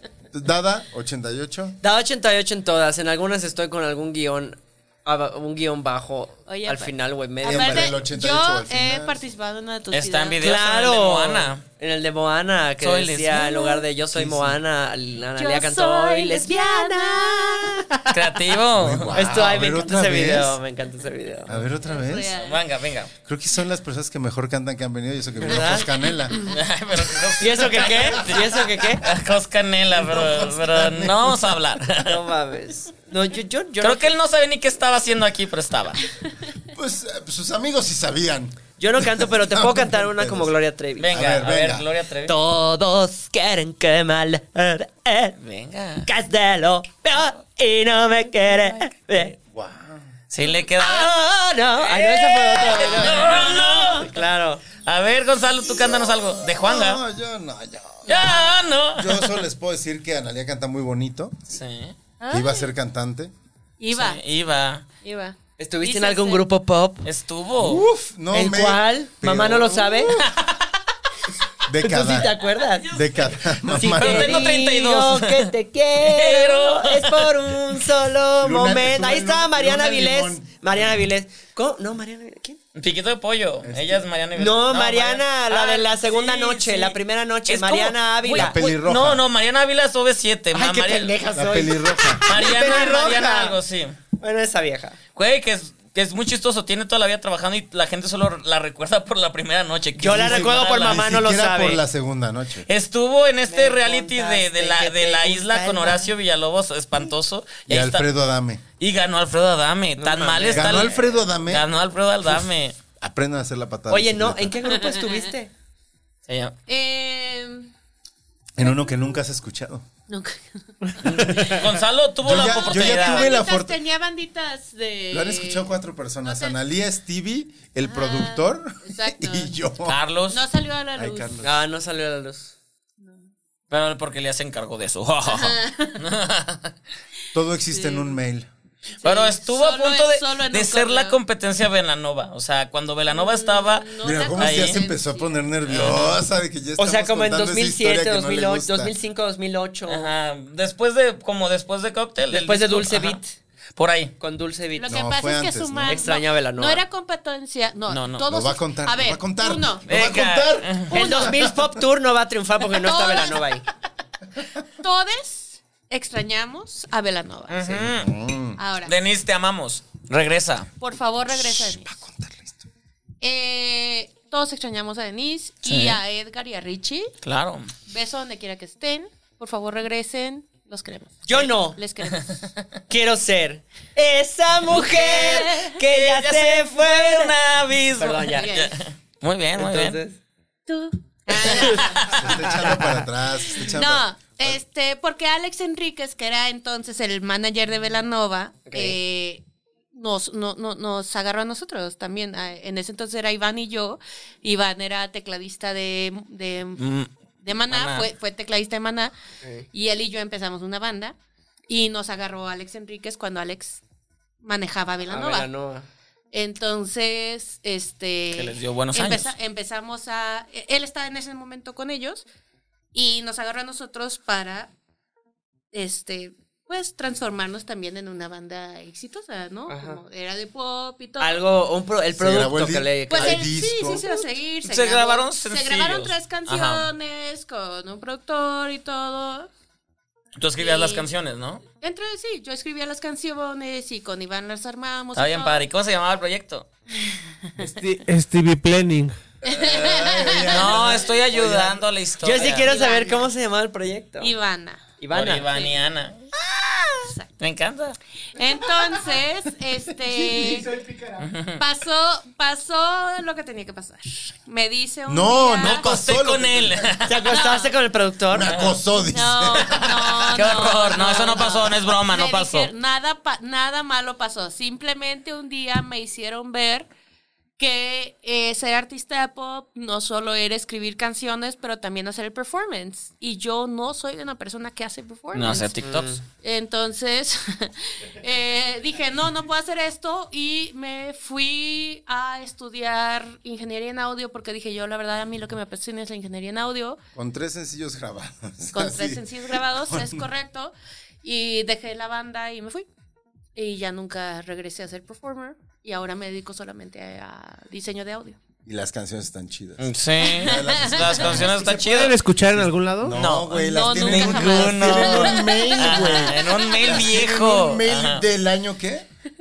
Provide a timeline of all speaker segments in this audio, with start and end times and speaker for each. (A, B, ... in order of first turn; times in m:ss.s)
0:00.3-0:01.8 A
0:01.8-0:08.0 B
0:06.5-0:10.5 C
0:07.4-0:09.2 A
0:09.9-0:11.6 D
0:10.4-0:18.2 B
0:12.8-0:13.7 D
0:14.1-0:14.6 A
0:15.4-0:17.8 C
0:18.1-0:19.4 D
0:18.8-0:20.6 A
0:19.1-0:21.6 B
0:21.5-0:22.3 A
0:21.8-0:22.6 C
0:22.4-0:23.1 D
0:23.2-0:26.4 A
0:25.4-0:25.9 B
0:26.4-0:32.2 D
0:27.4-0:29.0 B
0:29.9-0:31.5 A
0:32.0-0:34.1 B
0:33.8-0:36.0 D
0:36.7-0:40.5 A
0:38.8-0:41.1 B
0:41.0-0:42.4 D
0:41.1-0:41.9 A
0:42.2-0:45.4 B
0:45.4-0:46.1 D
0:46.0-0:49.3 B
0:49.4-0:50.1 A
0:50.3-0:51.1 D
0:50.8-0:54.6 B
0:51.8-0:54.2 D
0:53.2-0:54.0 C
0:54.7-0:57.0 D
0:56.5-0:58.3 A
0:58.1-0:58.6 C
0:58.1-0:59.4 D
0:58.9-1:01.4 A
1:01.5-1:01.9 D
1:02.2-1:02.7 C
1:02.3-1:03.3 A
1:03.8-1:04.2 C
1:03.9-1:04.8 D
1:05.0-1:06.4 C
1:05.6-1:07.1 B
1:07.0-1:07.8 D
1:07.6-1:10.3 A
1:08.3-1:10.2 B
1:11.7-1:14.4 A
1:11.8-1:13.0 B
1:13.7-1:22.6 B
1:13.7-1:17.4 D
1:18.4-1:21.0 A
1:22.8-1:31.2 D
1:23.6-1:24.0 A
1:24.3-1:28.6 B
1:28.3-1:29.2 A
1:30.5-1:33.6 B
1:31.3-1:32.3 A
1:32.3-1:34.0 D
1:34.2-1:35.0 B
1:35.1-1:41.0 D
1:40.0-1:41.8 B
1:40.0-1:42.7 A
1:42.7-1:48.0 D
1:43.5-1:46.1 B
1:47.7-1:48.6 A
1:48.8-1:52.8 D
1:50.0-1:51.0 B
1:50.5-1:51.6 A
1:53.0-1:54.6 A
1:53.9-1:55.5 B
1:54.7-1:55.2 C
1:56.3-1:56.5 D
1:56.7-1:57.7 C
1:58.6-1:59.8 A
1:58.6-1:59.0 C
2:00.1-2:01.7 C
2:01.0-2:03.3 D
2:02.2-2:03.8 A
2:02.3-2:05.7 C
2:05.1-2:10.0 A
2:06.2-2:06.6 C
2:07.8-2:09.5 C
2:09.8-2:10.4 D
2:10.3-2:11.4 C
2:11.0-2:11.6 A
2:11.4-2:12.5 B
2:13.7-2:16.7 D
2:15.2-2:16.0 C
2:17.3-2:18.5 A
2:17.7-2:18.2 C
2:19.0-2:21.2 C
2:19.0-2:24.8 D
2:23.1-2:25.5 C
2:24.0-2:28.9 A
2:25.7-2:26.1 D
2:26.8-2:30.1 B
2:29.9-2:33.2 D
2:32.3-2:33.4 B
2:33.8-2:34.1 D
2:34.2-2:35.0 B
2:34.8-2:39.9 C
2:34.8-2:36.0 A
2:35.9-2:36.8 B
2:37.9-2:38.3 D
2:38.2-2:41.6 A
2:39.9-2:41.0 D
2:40.9-2:43.6 B
2:40.9-2:41.5 C
2:42.7-2:43.5 C
2:44.8-2:47.8 C
2:47.5-2:48.1 D
2:47.8-2:48.6 A
2:48.6-2:48.9 C
2:48.8-2:50.7 D
2:50.8-2:52.0 C
2:51.3-2:52.6 A
2:53.2-2:57.1 C
2:55.6-2:56.0 D
2:57.2-2:57.7 D
2:57.9-3:02.5 C
3:01.2-3:01.8 B
3:02.9-3:07.3 B
3:04.8-3:05.8 C
3:05.9-3:10.0 D
3:07.9-3:08.5 B
3:08.3-3:08.8 C
3:09.6-3:10.2 B
3:10.7-3:12.3 C
3:11.4-3:14.6 A
3:11.4-3:12.3 D
3:13.5-3:26.8 C
3:18.7-3:19.0 B
3:26.8-3:27.1 D
3:27.4-3:29.1 C
3:27.7-3:28.1 D
3:29.4-3:29.7 B
3:29.7-3:31.2 C
3:31.7-3:33.8 C
3:34.4-3:35.5 C
3:35.1-3:35.9 B
3:36.3-3:42.3 C
3:38.3-3:39.3 D
3:42.9-3:44.7 C
3:45.7-3:51.4 C
3:49.7-3:50.0 B
3:51.2-3:53.5 B
3:52.1-3:54.1 A
3:53.1-3:59.5 C
3:54.6-3:56.9 D
4:00.4-4:01.6 D
4:00.6-4:01.1 C
4:01.8-4:05.6 C
4:05.1-4:06.7 D
4:07.6-4:09.2 E
4:09.4-4:11.0 C
4:09.4-4:11.8 A
4:10.4-4:12.8 D
4:12.2-4:14.3 B
4:12.4-4:13.3 C
4:14.2-4:14.9 C
4:15.0-4:15.7 B
4:15.1-4:16.2 D
4:17.0-4:17.3 C
4:17.4-4:18.0 D
4:18.3-4:20.8 C
4:20.1-4:21.3 E
4:21.2-4:21.6 D
4:21.6-4:25.9 C
4:25.1-4:27.1 A
4:25.6-4:27.3 D
4:27.0-4:28.5 B
4:27.2-4:27.8 C
4:28.3-4:30.4 A
4:28.4-4:28.8 D
4:28.9-4:36.9 C
4:29.6-4:32.7 D
4:37.6-4:57.0 C
4:45.3-4:46.2 D
4:45.8-4:46.2 B
4:57.2-5:00.2 A
4:58.7-5:02.9 C
5:03.6-5:08.4 C
5:08.6-5:19.1 A
5:09.8-5:12.2 D
5:10.2-5:11.6 C
5:11.8-5:13.2 E
5:13.1-5:18.2 D
5:13.6-5:17.0 C